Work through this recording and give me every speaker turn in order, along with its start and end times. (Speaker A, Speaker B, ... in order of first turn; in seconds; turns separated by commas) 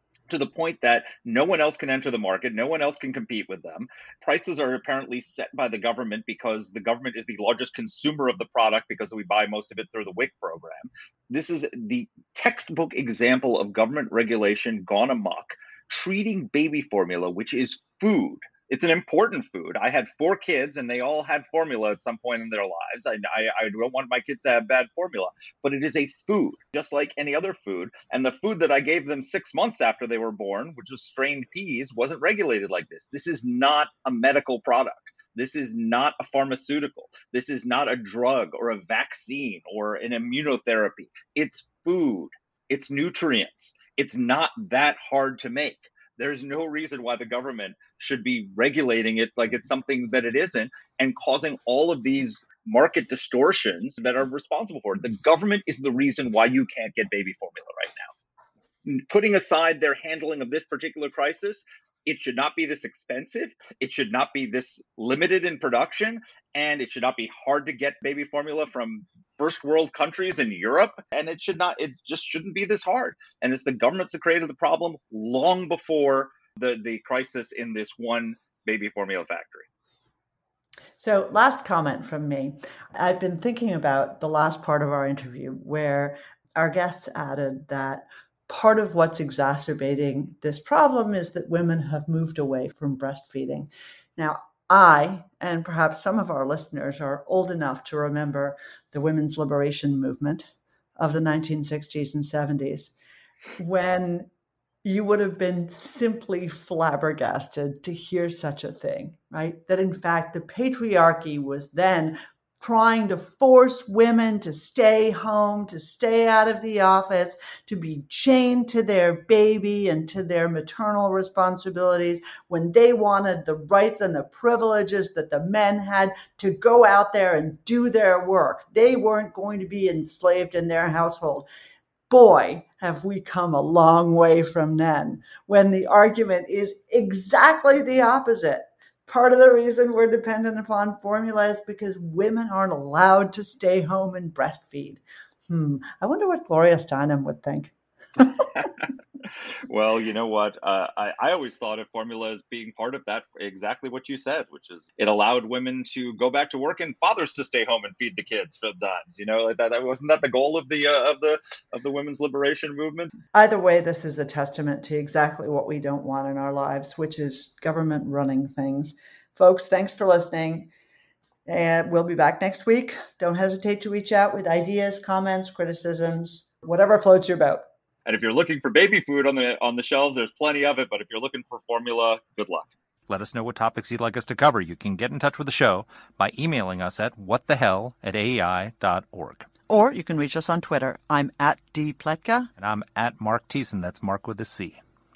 Speaker A: 0.3-58.1, Speaker A: 58.8-79.7, Speaker B: 81.0-102.9, Speaker B: 103.6-104.3, Speaker B: 104.8-131.4, Speaker B: 132.1-148.4, Speaker A: 148.6-163.1, Speaker B: 163.3-170.7, Speaker B: 171.4-177.7, Speaker A: 178.1-182.7, Speaker C: 183.1-189.5, Speaker B: 189.7-192.5, Speaker C: 192.6-194.8